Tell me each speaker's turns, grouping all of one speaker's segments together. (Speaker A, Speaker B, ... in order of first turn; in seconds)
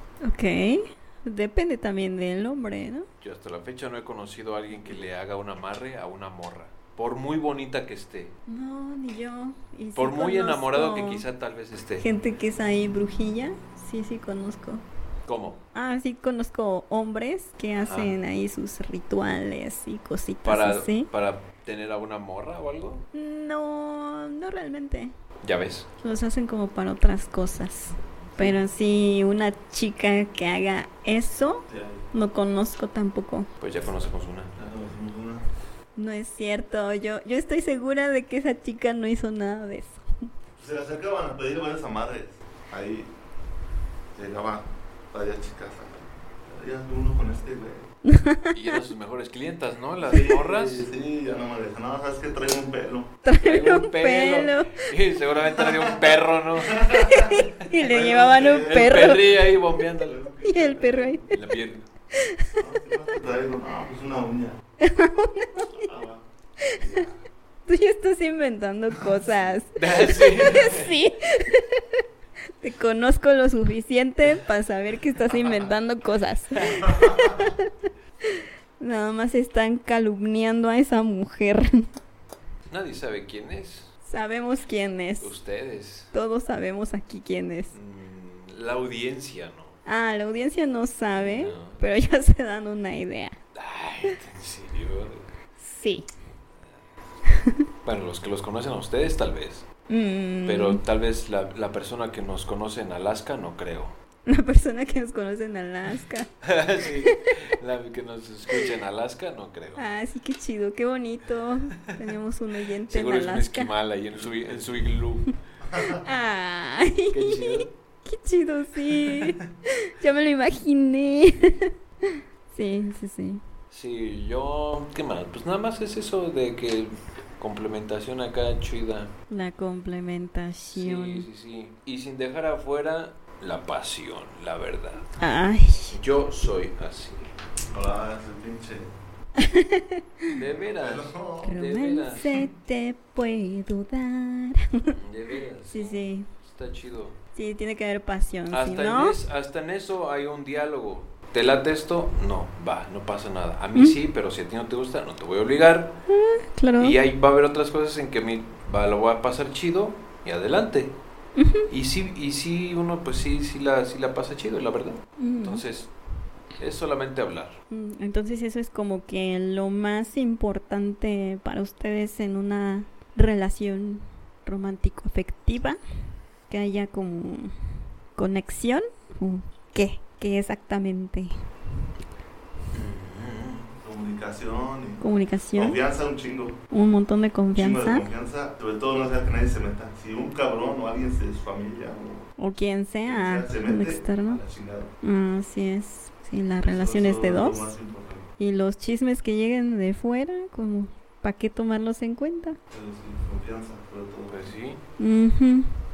Speaker A: 0.2-3.1, 8.5-11.2, 12.0-14.8, 15.7-21.1, 23.1-25.1, 26.0-33.5, 36.0-40.0, 48.0-48.8, 53.2-54.9, 56.9-59.5, 60.4-61.3, 62.1-62.6, 64.8-65.9, 66.6-67.0, 67.7-72.0, 72.6-77.7, 78.2-81.9, 84.1-85.3, 86.1-87.7, 89.9-93.4, 95.6-96.1, 99.9-100.8, 104.3-106.3, 109.8-113.7, 115.8-123.4, 129.3-131.3, 135.2-136.0, 139.4-140.3, 141.4-144.9, 145.7-146.3, 147.3-149.2, 156.1-157.0, 161.3-161.7, 165.2-165.6, 167.7-175.8, 176.5-177.5, 178.2-181.4, 185.0-185.8, 186.7-188.1, 192.4-194.4, 195.0-197.7, 198.4-202.6, 205.0-205.8
Speaker B: 3.2-8.3, 10.0-12.1, 15.3-15.6, 17.8-18.1, 20.4-23.1, 25.4-25.9, 33.6-34.6, 48.5-50.9, 53.4-56.9, 58.6-60.2, 61.3-61.9, 69.8-71.0, 76.6-76.9, 82.7-83.9, 85.2-86.1, 87.7-89.8, 91.2-91.8, 93.5-95.3, 97.8-99.7, 100.5-104.0, 106.4-109.8, 112.9-115.3, 117.1-117.7, 123.7-129.1, 130.7-135.1, 135.9-137.3, 140.3-142.5, 144.9-147.2, 148.5-156.0, 156.8-160.9, 161.7-165.9, 166.6-167.6, 182.7-183.7, 204.3-204.8
Speaker C: 31.7-32.1, 34.6-35.5, 40.6-43.1, 44.1-47.9, 50.0-53.1, 55.5-59.2, 60.0-61.3, 62.6-64.6, 65.7-67.2, 69.0-69.5, 76.9-77.4, 115.7-116.0, 137.7-138.9, 140.8-141.6, 183.8-185.0, 185.5-186.6, 187.5-192.3, 193.0-194.9, 196.6-198.3, 202.7-204.6